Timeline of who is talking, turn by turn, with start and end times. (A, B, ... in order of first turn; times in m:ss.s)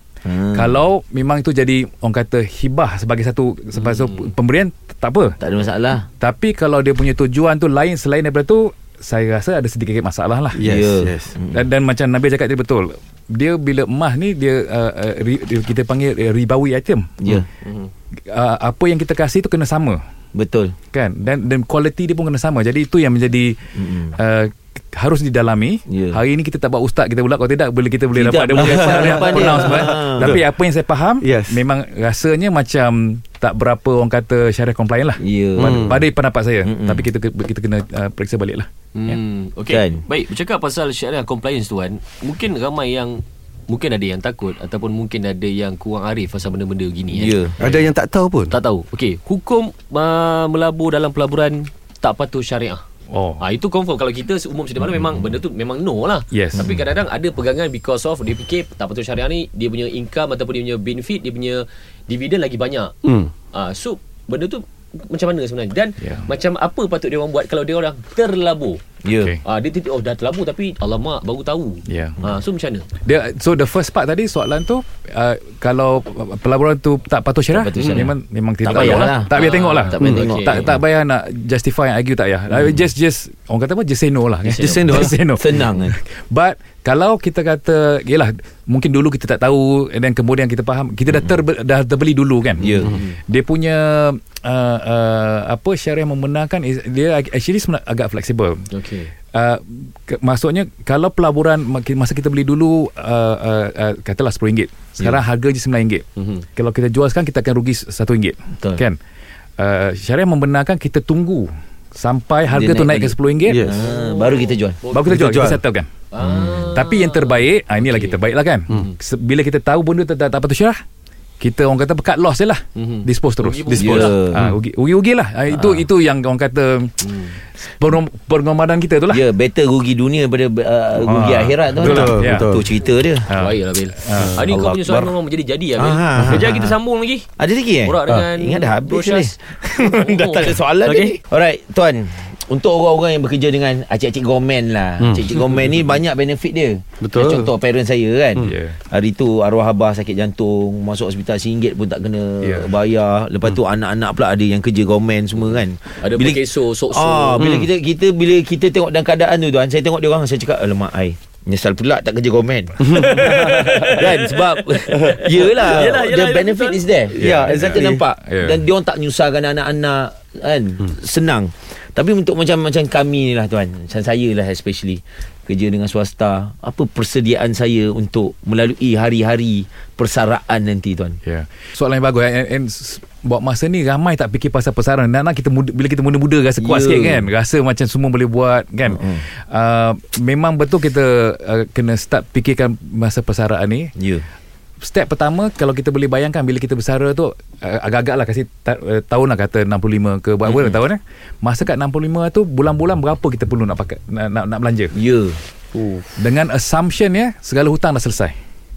0:00.2-0:00.8 A
0:00.5-0:05.4 B
0:03.8-0:04.3 C
0:05.4-0:06.1 A
0:06.2-0:10.6 B
0:10.5-0:11.4 D
0:10.6-0:11.6 A
0:11.5-0:17.3 B
0:17.2-0:17.5 A
0:17.4-0:17.9 C
0:18.3-0:20.0 B
0:20.3-0:20.7 A
0:20.9-0:39.2 B
0:23.8-0:24.2 A
0:25.9-0:26.2 A
0:28.1-0:30.4 A
0:28.6-0:30.4 D
0:31.2-0:31.6 D
0:35.2-0:36.0 A
0:35.6-0:36.1 D
0:36.6-0:37.1 A
0:38.9-0:47.4 C
0:39.7-0:40.0 A
0:47.1-0:47.6 A
0:47.6-0:48.5 D
0:48.5-0:52.8 C
0:53.1-0:53.4 B
0:53.4-1:02.9 C
0:56.3-0:56.6 B
1:03.0-1:03.3 D
1:03.5-1:08.8 C
1:06.0-1:06.3 B
1:09.0-1:09.4 A
1:09.4-1:12.9 C
1:11.9-1:12.2 B
1:13.0-1:38.6 B
1:17.5-1:18.1 A
1:17.8-1:18.1 C
1:18.6-1:19.3 A
1:18.7-1:20.7 C
1:20.0-1:20.8 A
1:22.5-1:22.8 A
1:24.4-1:25.1 C
1:24.4-1:26.0 A
1:32.6-1:33.0 A
1:32.8-1:33.1 C
1:38.7-1:39.1 C
1:39.3-1:46.0 B
1:46.2-1:46.5 C
1:46.6-1:49.0 B
1:49.6-1:53.6 B
1:52.5-1:54.8 A
1:53.4-1:53.9 D
1:53.7-1:55.1 C
1:54.9-1:55.9 B
1:55.0-1:55.6 D
1:56.1-1:58.9 C
1:56.2-1:56.6 A
1:56.7-2:00.8 B
2:01.4-2:07.0 B
2:02.8-2:04.2 C
2:03.6-2:04.1 D
2:03.8-2:04.5 A
2:05.5-2:05.9 A
2:07.0-2:07.4 C
2:07.6-2:09.2 B
2:09.1-2:13.3 A
2:11.0-2:12.5 B
2:11.8-2:12.7 D
2:13.3-2:14.4 B
2:13.3-2:17.3 C
2:14.2-2:15.1 A
2:15.8-2:16.7 A
2:17.4-3:01.2 A
2:17.8-2:21.2 C
2:25.0-2:25.3 D
2:27.0-2:27.5 D
2:28.4-2:28.8 B
2:32.4-2:32.7 B
2:36.0-2:37.4 C
2:37.4-2:37.7 D
2:42.8-2:43.1 D
2:42.9-2:46.8 C
2:47.1-2:48.0 D
2:47.1-2:48.6 B
3:01.2-3:13.9 B
3:06.6-3:07.3 A
3:08.8-3:09.3 A
3:14.0-3:14.2 A
3:14.8-3:24.9 B
3:20.4-3:20.8 A
3:24.9-3:25.4 A
3:25.7-3:26.2 C
3:26.2-3:28.3 B